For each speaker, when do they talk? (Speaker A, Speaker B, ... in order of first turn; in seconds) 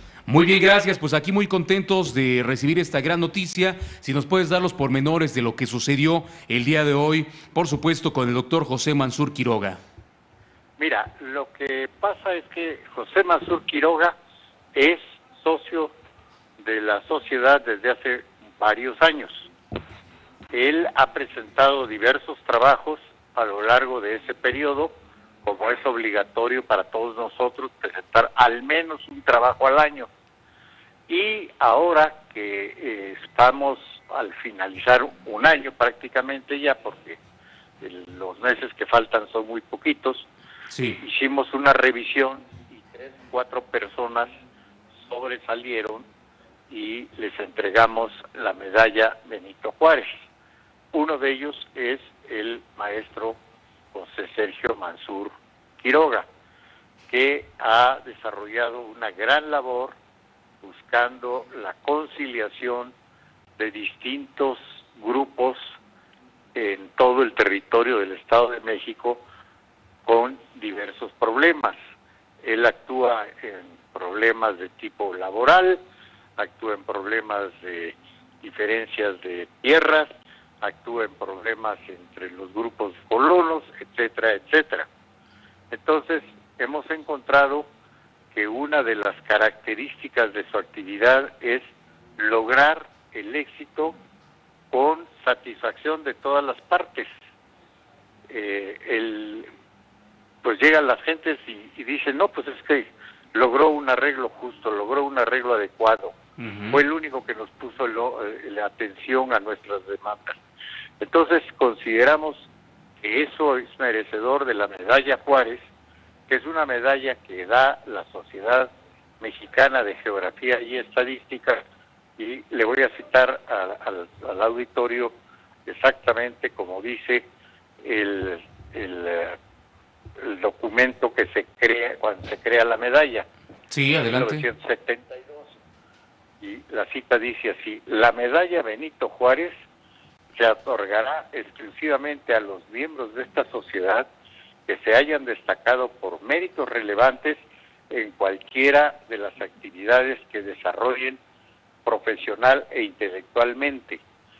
Speaker A: 0.3-9.8, 40.7-41.0, 106.4-106.8, 133.7-134.5
Speaker B: 10.8-14.2, 14.8-15.9, 16.6-19.5, 20.5-30.1, 31.1-37.2, 37.8-40.3, 41.0-44.3, 45.0-46.1, 46.7-50.1, 50.9-53.4, 53.9-55.3, 55.8-56.3, 57.1-60.0, 60.6-62.9, 63.6-65.6, 66.5-69.2, 70.1-71.8, 72.4-75.8, 76.4-80.1, 80.6-84.9, 85.7-87.7, 88.3-91.6, 92.2-94.0, 94.7-97.1, 98.3-99.5, 100.4-106.2, 106.7-110.4, 111.0-112.5, 113.0-115.6, 116.3-121.6, 122.2-125.1, 125.7-127.3, 127.8-129.4, 130.2-133.3, 134.0-135.5, 136.4-139.5, 140.3-144.1, 144.7-151.2, 151.8-154.0